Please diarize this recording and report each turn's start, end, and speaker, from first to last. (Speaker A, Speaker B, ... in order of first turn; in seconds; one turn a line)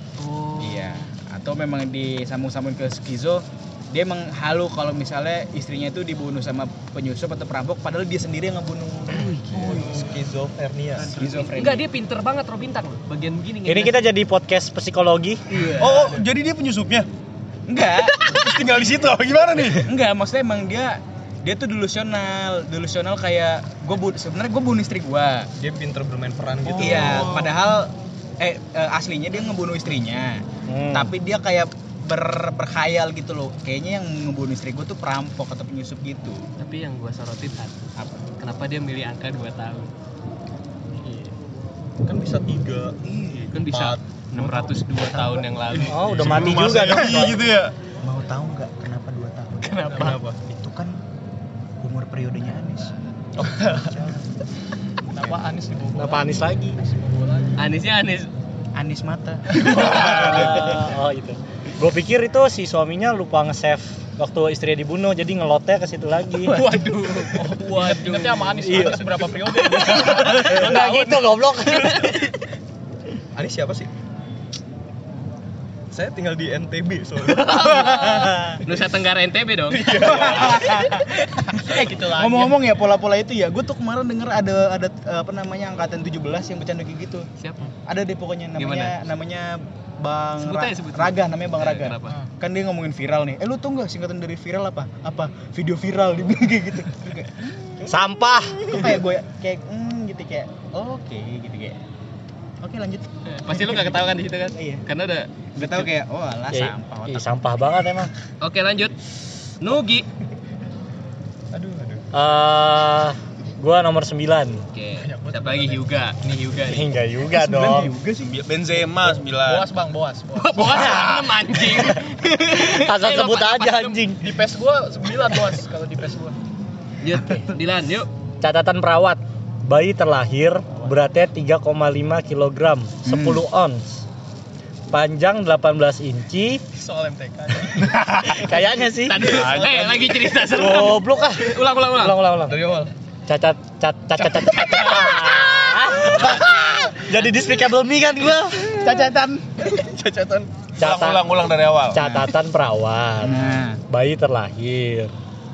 Speaker A: 0.2-1.1
Speaker B: 0.6-9.9
Speaker A: 9.1-10.1
Speaker C: 9.5-11.1
Speaker A: 11.0-14.0
Speaker B: 11.1-11.8
Speaker D: 13.6-15.4
Speaker A: 15.5-15.9
Speaker B: 15.5-15.8
Speaker E: 15.8-17.1
Speaker C: 15.8-16.2
Speaker B: 17.7-18.3
Speaker A: 18.2-18.6
Speaker C: 18.3-19.9
Speaker E: 18.8-19.7
Speaker B: 19.8-25.5
Speaker C: 25.6-27.5
Speaker B: 26.7-36.4
Speaker D: 30.7-31.1
Speaker A: 36.6-37.8
Speaker A: 38.4-39.9
Speaker C: 42.0-44.8
Speaker B: 43.1-43.5
Speaker A: 43.5-46.1
Speaker C: 45.6-47.0
Speaker D: 45.9-47.5
Speaker E: 46.2-47.7
Speaker B: 46.9-47.3
Speaker B: 48.0-51.0
Speaker A: 49.6-50.2
Speaker C: 50.0-50.4
Speaker B: 51.8-54.3
Speaker F: 55.1-57.7
Speaker D: 55.9-56.8
Speaker A: 57.6-58.3
Speaker B: 58.7-60.9
Speaker D: 59.6-66.7
Speaker A: 66.5-68.8
Speaker F: 67.2-71.3
Speaker D: 68.6-72.2
Speaker A: 69.8-70.4
Speaker A: 71.7-72.2
Speaker C: 73.3-73.9
Speaker C: 75.9-77.9
Speaker A: 77.2-80.6
Speaker B: 77.5-78.6
Speaker C: 79.7-80.8
Speaker B: 79.9-87.3
Speaker F: 81.6-82.6
Speaker A: 87.4-87.7
Speaker B: 87.8-101.8
Speaker A: 88.6-89.0
Speaker A: 90.4-92.2
Speaker D: 97.8-98.8
Speaker B: 102.6-104.0
Speaker A: 103.2-105.9
Speaker B: 104.5-104.8
Speaker B: 105.5-107.3
Speaker D: 106.5-108.1
Speaker A: 108.4-109.0
Speaker A: 109.6-110.1
Speaker C: 111.5-112.1
Speaker D: 112.1-114.6
Speaker A: 114.7-116.9
Speaker C: 115.0-115.8
Speaker D: 116.6-117.9
Speaker B: 117.3-118.3
Speaker E: 118.1-119.7
Speaker F: 119.4-120.7
Speaker A: 120.3-124.0
Speaker D: 120.6-124.3
Speaker F: 124.2-126.3
Speaker A: 127.0-128.1
Speaker D: 128.4-134.0
Speaker B: 133.1-133.4
Speaker D: 134.9-136.6
Speaker C: 136.8-137.8
Speaker D: 137.7-139.5
Speaker A: 139.0-142.2
Speaker C: 139.3-140.3
Speaker D: 140.5-142.6
Speaker C: 142.4-142.9
Speaker D: 143.3-148.9
Speaker C: 144.2-144.7
Speaker A: 144.6-146.3
Speaker B: 146.1-146.9
Speaker B: 148.6-149.7
Speaker C: 149.7-150.5
Speaker D: 150.8-151.3
Speaker E: 150.8-152.0
Speaker D: 151.9-155.1
Speaker B: 151.9-152.3
Speaker B: 153.2-153.8